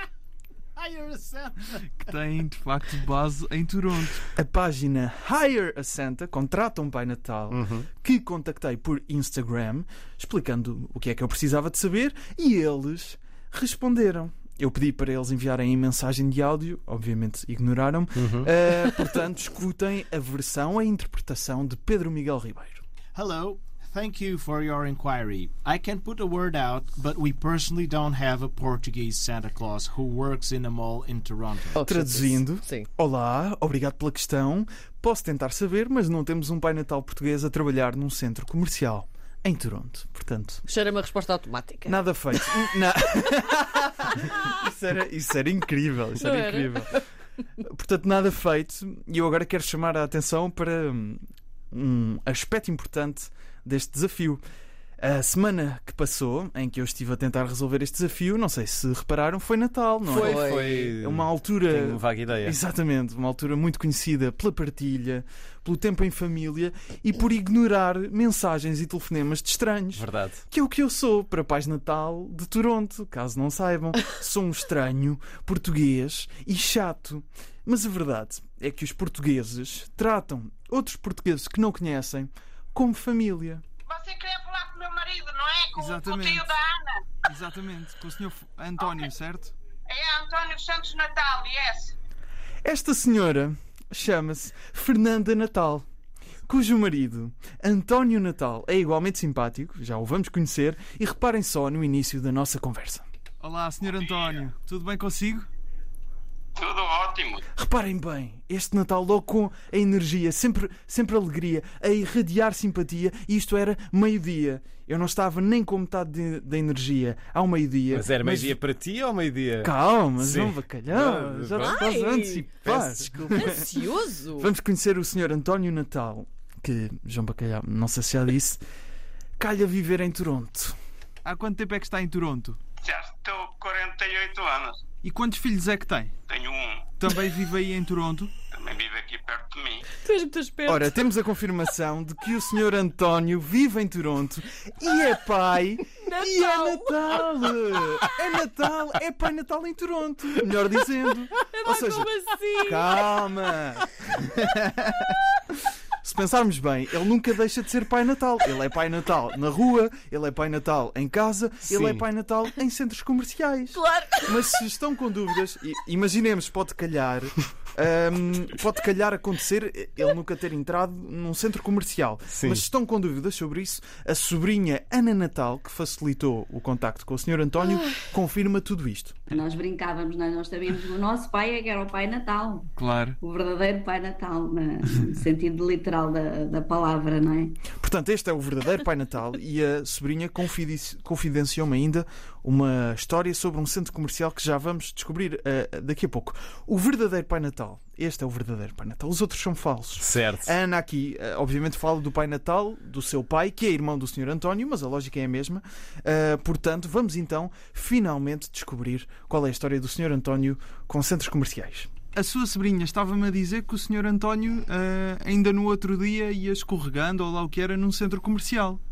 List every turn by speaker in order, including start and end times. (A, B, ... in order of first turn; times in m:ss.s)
0:00.8-0:02.2 A
0:02.0-0:04.2 B
0:04.3-0:22.8 C
0:07.5-0:07.9 D
0:18.2-0:18.5 D
0:23.1-0:31.8 A
0:31.7-0:32.9 E
0:31.8-0:40.6 C
0:40.6-0:42.4 E
0:41.8-0:47.0 C
0:46.2-0:47.0 E
0:47.6-0:54.4 C
0:55.0-1:23.6 C
1:00.0-1:02.6 D
1:00.1-1:00.9 E
1:09.9-1:10.4 D
1:23.9-1:27.1 F
1:25.8-1:26.5 B
1:27.3-1:29.5 B
1:28.8-1:29.1 F
1:29.9-1:31.9 F
1:32.6-1:35.8 C
1:36.5-1:43.0 C
1:43.4-1:45.5 B
1:43.9-1:44.4 G
1:46.5-1:47.4 G
1:47.5-1:58.6 C
1:57.9-2:01.8 D
1:59.6-2:03.7 C
2:01.6-2:04.5 E
2:04.4-2:08.6 C
2:09.4-2:10.8 C
2:11.2-2:12.6 B
2:12.8-2:14.8 G
2:15.0-2:16.1 B
2:16.3-2:16.9 G
2:17.0-2:18.3 B
2:18.5-2:19.9 G
2:20.0-2:21.0 E
2:20.7-2:35.2 C
2:26.0-2:27.3 E
2:31.5-2:33.0 E
2:36.0-2:59.3 C
2:41.7-2:42.0 D
2:43.7-2:44.3 E
2:52.3-2:52.6 D
2:59.3-3:07.6 H
3:02.8-3:03.2 B
3:07.7-3:31.9 C
3:20.0-3:20.5 D
3:32.1-3:38.8 B